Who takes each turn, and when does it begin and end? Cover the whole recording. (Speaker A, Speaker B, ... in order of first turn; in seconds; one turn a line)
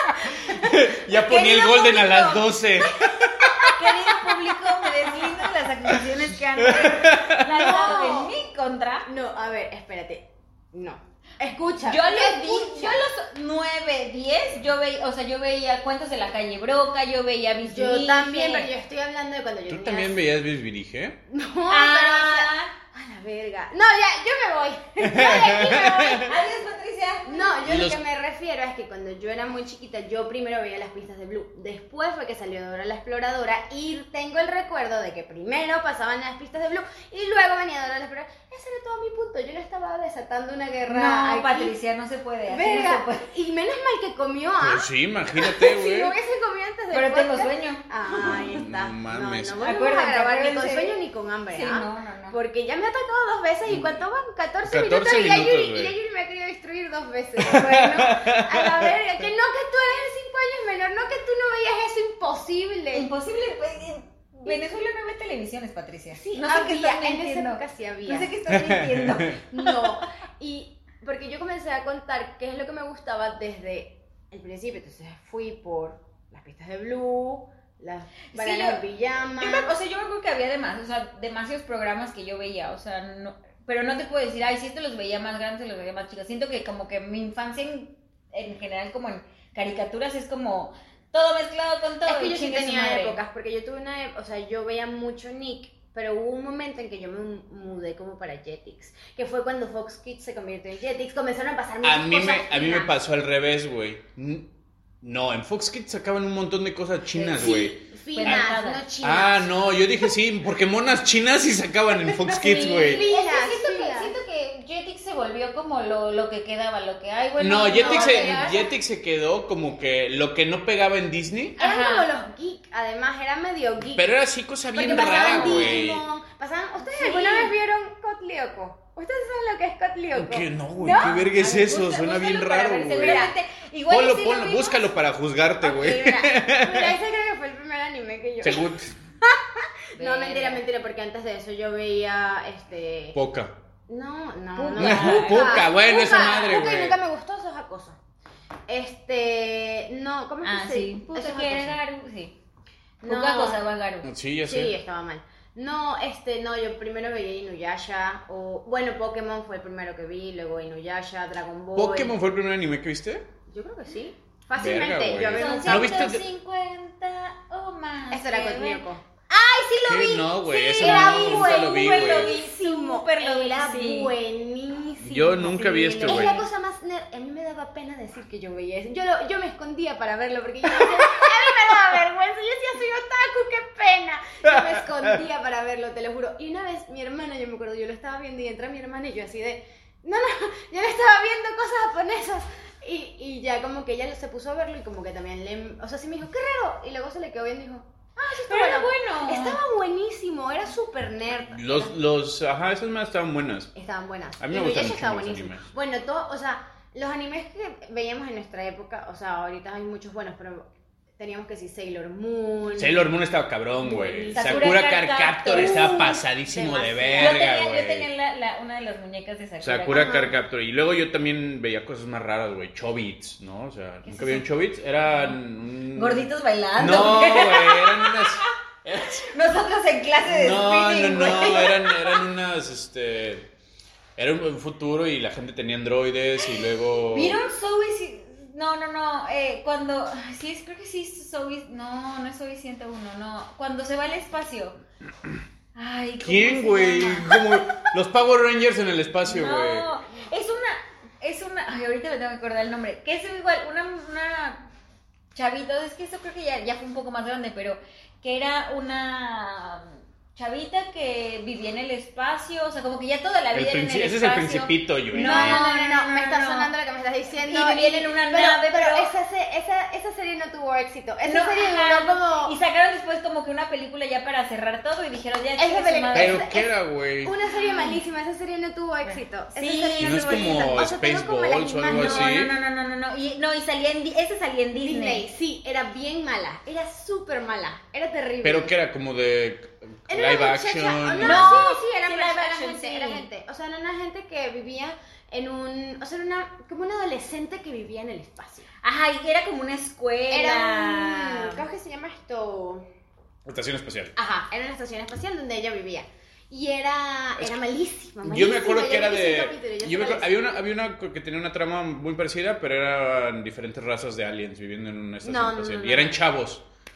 Speaker A: 0.2-3.7
Speaker B: 1.1-2.5
Speaker C: 3.0-3.7
Speaker B: 3.7-9.1
Speaker A: 5.9-7.9
Speaker C: 7.5-8.3
Speaker C: 9.1-13.1
Speaker B: 11.9-18.7
Speaker C: 17.7-20.2
Speaker A: 19.7-21.2
Speaker C: 21.3-26.3
Speaker B: 21.7-22.7
Speaker A: 25.0-26.3
Speaker B: 26.1-27.5
Speaker C: 27.3-41.8
Speaker A: 27.6-28.0
Speaker B: 40.9-43.3
Speaker C: 42.5-63.1
Speaker A: 44.6-46.1
Speaker B: 46.9-48.3
Speaker A: 48.2-49.6
Speaker B: 49.6-52.4
Speaker A: 54.6-55.9
Speaker A: 57.4-58.9
Speaker B: 62.9-69.8
Speaker C: 64.5-64.7
Speaker C: 66.1-68.3
Speaker A: 68.5-69.4
Speaker C: 69.5-79.8
Speaker B: 78.3-78.8
Speaker B: 79.4-93.2
Speaker C: 92.1-102.9
Speaker A: 101.8-104.5
Speaker A: 105.0-108.5
Speaker C: 107.1-110.1
Speaker B: 108.2-108.8
Speaker A: 109.0-113.0
Speaker C: 112.3-114.1
Speaker B: 112.5-118.5
Speaker A: 117.4-121.6
Speaker C: 117.7-118.7
Speaker B: 121.6-122.1
Speaker C: 121.6-124.2
Speaker A: 124.0-126.0
Speaker C: 124.7-131.3
Speaker B: 124.8-125.8
Speaker B: 126.8-127.5
Speaker A: 130.1-133.3
Speaker B: 131.0-134.8
Speaker C: 132.9-133.3
Speaker A: 133.9-137.0
Speaker C: 135.6-138.7
Speaker A: 138.4-138.9
Speaker C: 139.2-143.2
Speaker B: 140.0-140.6
Speaker A: 143.1-143.6
Speaker C: 143.9-148.0
Speaker B: 144.6-145.7
Speaker A: 144.8-147.0
Speaker C: 148.7-151.8
Speaker B: 150.4-152.4
Speaker C: 153.0-153.6
Speaker B: 153.0-154.1
Speaker A: 154.0-154.7
Speaker C: 154.4-162.2
Speaker A: 161.8-163.3
Speaker C: 163.5-166.1
Speaker A: 164.6-166.2
Speaker B: 165.3-174.1
Speaker C: 168.1-169.0
Speaker A: 169.8-172.4
Speaker C: 170.6-201.9
Speaker A: 175.0-176.4
Speaker B: 175.4-176.4
Speaker A: 184.4-185.2
Speaker B: 198.4-199.6
Speaker A: 201.5-203.7
Speaker C: 203.8-213.1
Speaker A: 204.4-205.7
Speaker A: 212.8-218.1
Speaker C: 213.8-214.9
Speaker B: 214.3-216.2
Speaker C: 215.5-217.5
Speaker B: 217.2-220.2
Speaker A: 219.6-229.4
Speaker C: 219.9-220.3
Speaker B: 224.1-224.5
Speaker B: 225.1-225.4
Speaker B: 225.9-228.5
Speaker B: 229.3-232.2
Speaker A: 230.2-233.5
Speaker A: 234.2-237.4
Speaker B: 237.0-244.8
Speaker B: 245.8-247.4
Speaker A: 246.2-249.9
Speaker B: 249.2-254.7
Speaker B: 255.3-266.7
Speaker A: 263.5-265.6
Speaker C: 265.1-272.6
Speaker B: 267.4-269.1
Speaker B: 271.2-276.4
Speaker C: 275.6-282.4
Speaker A: 276.1-277.3
Speaker B: 277.5-278.0
Speaker B: 279.1-280.5
Speaker A: 280.0-282.5
Speaker B: 281.9-285.2
Speaker C: 284.8-288.8
Speaker A: 288.4-291.7
Speaker C: 290.1-298.7
Speaker B: 291.2-293.3
Speaker B: 298.8-301.6
Speaker C: 300.3-302.9
Speaker A: 303.4-304.2
Speaker C: 304.2-310.4
Speaker A: 308.2-316.6
Speaker C: 315.2-316.2